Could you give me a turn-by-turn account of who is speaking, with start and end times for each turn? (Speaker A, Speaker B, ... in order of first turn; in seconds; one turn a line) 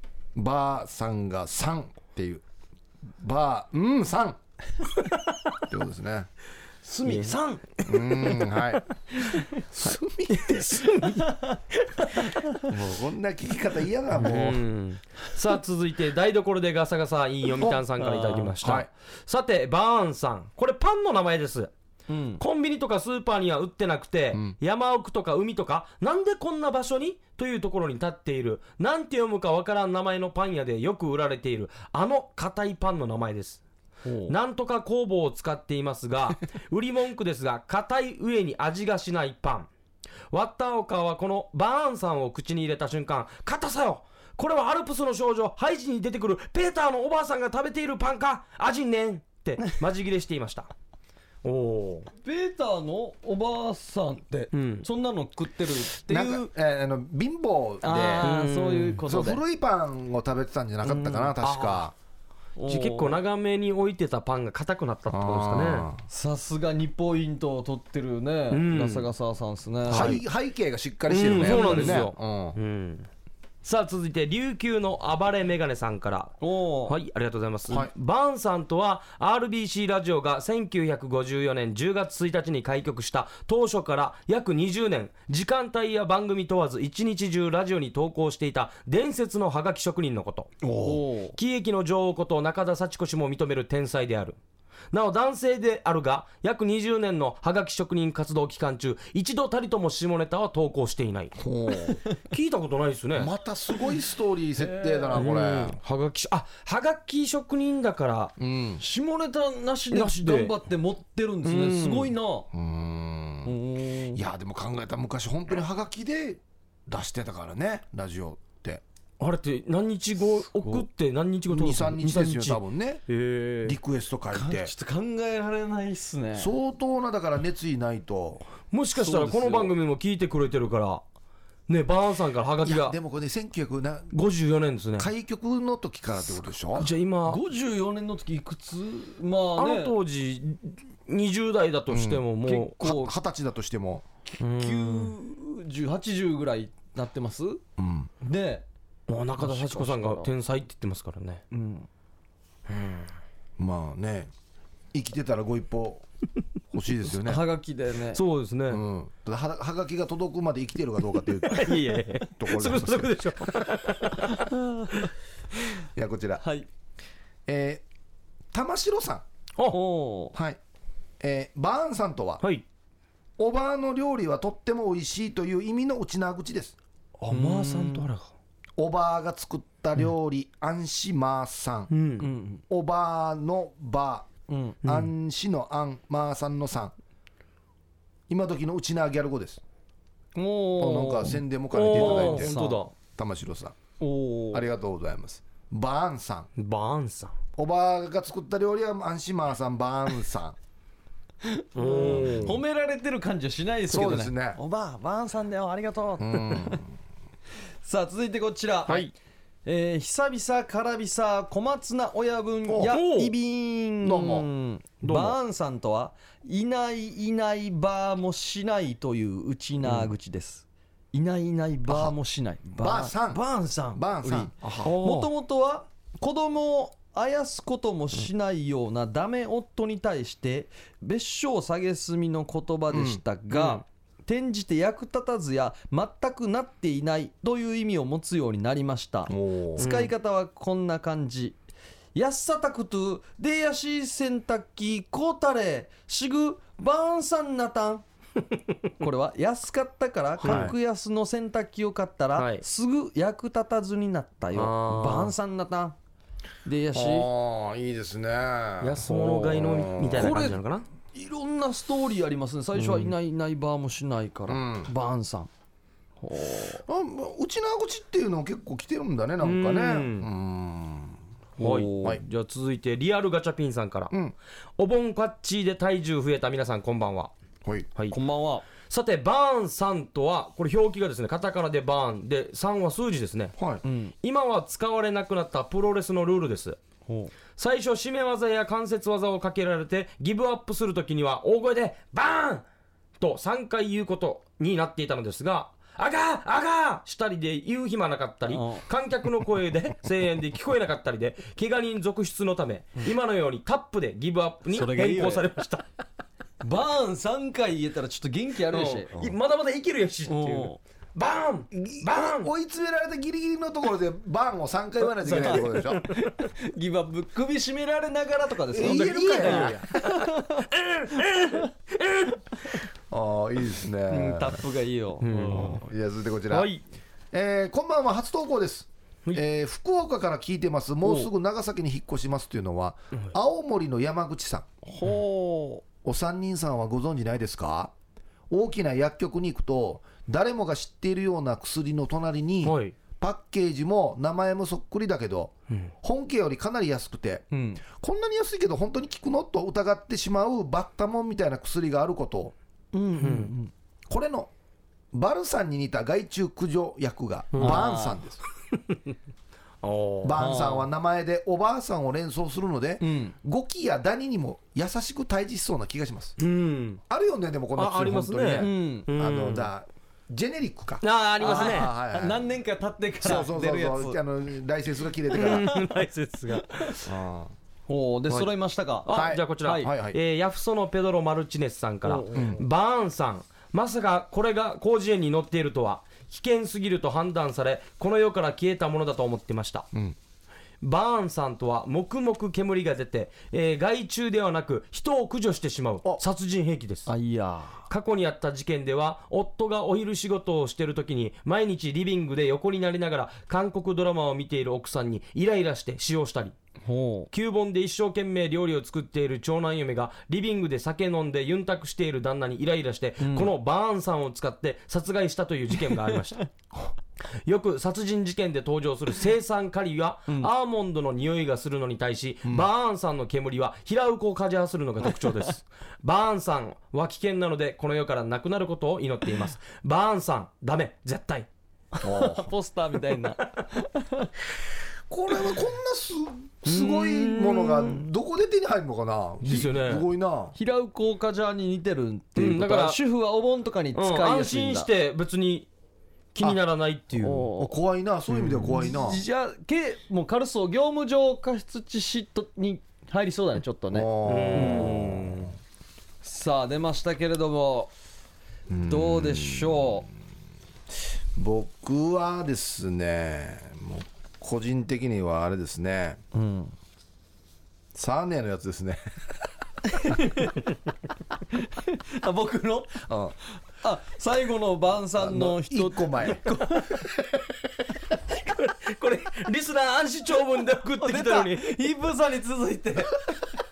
Speaker A: 0.3-2.4
Speaker A: 3.2-4.4
Speaker A: 5.7-6.3
Speaker B: 6.8-7.6
Speaker C: 7.0-8.7
Speaker A: 7.8-8.8
Speaker C: 9.2-12.6
Speaker A: 9.7-10.7
Speaker A: 12.7-14.6
Speaker C: 14.1-21.7
Speaker B: 17.6-18.5
Speaker A: 18.6-18.9
Speaker B: 22.1-22.4
Speaker C: 22.4-33.6
Speaker A: 24.3-24.6
Speaker B: 34.0-34.3
Speaker C: 34.3-39.7
Speaker C: 40.3-50.7
Speaker C: 51.4-52.1
Speaker B: 52.2-56.5
Speaker C: 54.5-54.9
Speaker A: 56.0-58.2
Speaker B: 57.8-59.4
Speaker C: 57.9-59.0
Speaker A: 59.0-61.9
Speaker B: 60.8-61.3
Speaker C: 61.4-61.9
Speaker B: 62.6-63.2
Speaker C: 62.6-65.9
Speaker A: 65.1-66.0
Speaker B: 66.1-70.2
Speaker C: 68.5-69.1
Speaker A: 69.9-72.6
Speaker C: 69.9-70.2
Speaker C: 71.1-73.1
Speaker B: 71.3-72.0
Speaker C: 73.6-90.5
Speaker B: 76.4-76.9
Speaker A: 90.6-91.0
Speaker B: 90.8-91.3
Speaker C: 91.3-94.4
Speaker C: 94.9-101.3
Speaker A: 101.3-102.0
Speaker C: 102.2-103.3
Speaker A: 103.2-105.8
Speaker B: 104.6-105.3
Speaker C: 105.1-108.3
Speaker A: 108.4-108.8
Speaker B: 108.8-112.5
Speaker C: 109.9-110.5
Speaker C: 111.4-112.1
Speaker A: 112.5-113.5
Speaker B: 113.4-114.2
Speaker A: 114.1-118.8
Speaker C: 119.2-123.8
Speaker A: 121.5-123.0
Speaker A: 123.6-124.7
Speaker B: 124.3-126.5
Speaker A: 126.3-128.4
Speaker C: 128.7-131.0
Speaker B: 128.9-129.7
Speaker C: 131.7-133.0
Speaker A: 132.6-134.1
Speaker C: 134.1-135.1
Speaker A: 135.0-136.9
Speaker C: 136.7-137.4
Speaker B: 137.2-139.9
Speaker C: 139.6-142.8
Speaker A: 141.9-142.3
Speaker B: 142.4-143.2
Speaker A: 142.8-144.1
Speaker C: 144.4-145.1
Speaker B: 144.4-147.6
Speaker A: 147.8-148.1
Speaker B: 148.2-148.6
Speaker C: 149.1-151.4
Speaker B: 149.4-150.3
Speaker B: 151.5-151.9
Speaker C: 152.7-153.1
Speaker A: 153.6-154.3
Speaker A: 154.9-156.0
Speaker A: 156.7-157.4
Speaker B: 157.1-158.2
Speaker C: 158.1-158.8
Speaker A: 158.7-163.1
Speaker C: 161.5-164.4
Speaker A: 165.9-166.4
Speaker B: 166.4-166.7
Speaker A: 167.5-167.8
Speaker A: 168.5-169.2
Speaker B: 169.7-170.3
Speaker A: 170.3-170.6
Speaker A: 171.2-172.4
Speaker A: 173.4-176.8
Speaker C: 177.2-178.3
Speaker B: 177.3-178.1
Speaker A: 178.8-181.9
Speaker C: 181.9-182.3
Speaker B: 182.2-182.6
Speaker A: 182.7-184.3
Speaker B: 184.5-184.8
Speaker A: 184.8-186.9
Speaker A: 188.3-189.6
Speaker B: 190.3-192.8
Speaker A: 190.8-193.8
Speaker C: 191.7-192.9
Speaker B: 194.0-194.7
Speaker A: 194.5-196.5
Speaker C: 196.6-197.3
Speaker A: 197.6-200.6
Speaker B: 201.4-206.8
Speaker C: 201.7-202.6
Speaker A: 202.0-202.6
Speaker A: 203.9-204.6
Speaker A: 206.2-206.9
Speaker B: 207.8-209.1
Speaker C: 208.9-209.1
Speaker B: 209.7-241.6
Speaker A: 212.7-213.0
Speaker C: 212.9-213.3
Speaker A: 214.0-214.5
Speaker C: 215.0-215.4
Speaker A: 221.9-222.2
Speaker A: 222.7-224.9
Speaker C: 224.7-225.3
Speaker A: 232.9-233.2
Speaker C: 233.5-233.8
Speaker A: 239.3-239.8
Speaker C: 239.8-240.1
Speaker B: 242.1-248.0
Speaker B: 249.0-255.9
Speaker C: 250.4-250.7
Speaker A: 250.4-250.7
Speaker C: 252.3-252.6
Speaker C: 254.5-255.3
Speaker B: 256.6-257.3
Speaker A: 256.9-260.4
Speaker C: 258.8-260.9
Speaker B: 259.1-259.6
Speaker B: 260.1-260.6
Speaker B: 261.1-265.5
Speaker C: 262.8-263.1
Speaker A: 264.5-264.9
Speaker B: 266.2-266.8
Speaker A: 266.9-271.2
Speaker C: 269.4-270.3
Speaker B: 271.6-272.2
Speaker C: 271.6-274.1
Speaker C: 274.8-277.3
Speaker A: 277.6-277.9
Speaker B: 278.1-278.7
Speaker C: 278.8-283.6
Speaker A: 283.6-283.8
Speaker B: 283.8-284.1
Speaker C: 284.2-286.8
Speaker B: 287.1-287.3
Speaker C: 287.6-292.6
Speaker C: 293.2-305.9
Speaker B: 298.5-298.8
Speaker B: 304.7-305.4
Speaker B: 306.6-309.1
Speaker C: 308.7-312.5
Speaker B: 310.3-310.8
Speaker A: 311.7-316.1
Speaker B: 315.2-320.7
Speaker C: 315.3-315.6
Speaker A: 318.7-319.9
Speaker C: 318.8-319.8
Speaker C: 320.7-322.4
Speaker A: 323.1-324.6
Speaker B: 324.1-325.8
Speaker C: 325.2-325.8
Speaker A: 325.6-326.7
Speaker C: 326.5-326.8
Speaker A: 327.3-334.7
Speaker B: 331.0-331.3
Speaker B: 334.9-335.8
Speaker A: 336.0-337.9
Speaker A: 338.5-352.5
Speaker C: 342.6-343.0
Speaker B: 347.5-347.8
Speaker B: 352.9-353.7
Speaker C: 353.2-353.5
Speaker A: 354.1-354.5
Speaker A: 355.1-358.4
Speaker C: 357.5-357.9
Speaker B: 357.6-358.2
Speaker C: 359.8-360.6
Speaker A: 360.2-366.4
Speaker B: 360.4-360.9
Speaker B: 363.0-363.4
Speaker C: 366.4-367.0
Speaker A: 367.1-372.4
Speaker C: 367.7-369.7
Speaker B: 368.6-369.1
Speaker C: 371.0-371.9
Speaker B: 371.4-374.2
Speaker A: 373.2-375.8
Speaker B: 375.3-375.9
Speaker C: 375.3-377.1
Speaker A: 377.0-377.5
Speaker B: 377.9-379.1
Speaker C: 379.1-389.9
Speaker A: 379.1-380.2
Speaker B: 379.6-379.9
Speaker B: 382.0-382.6
Speaker A: 382.3-382.6
Speaker C: 390.8-397.1
Speaker B: 397.1-397.9
Speaker C: 397.9-406.5
Speaker B: 406.8-407.3
Speaker C: 407.3-416.5
Speaker B: 413.2-413.5
Speaker C: 417.4-431.5
Speaker B: 432.0-434.3
Speaker A: 432.0-432.5
Speaker A: 435.1-440.5
Speaker C: 436.7-438.0
Speaker C: 439.4-440.1
Speaker B: 440.5-444.9
Speaker C: 442.4-443.0
Speaker C: 443.9-445.7
Speaker C: 446.3-447.5
Speaker B: 447.2-447.7
Speaker A: 447.6-449.2
Speaker B: 448.3-455.0
Speaker A: 453.9-455.3
Speaker C: 454.2-455.5
Speaker B: 456.2-457.9
Speaker A: 458.7-460.0
Speaker B: 458.9-460.1
Speaker A: 461.3-466.2
Speaker B: 466.3-466.7
Speaker A: 467.9-469.1
Speaker B: 470.1-470.5
Speaker B: 471.6-473.1
Speaker A: 473.1-473.3
Speaker B: 473.8-476.8
Speaker A: 475.2-476.5
Speaker C: 478.4-481.7
Speaker B: 481.0-483.3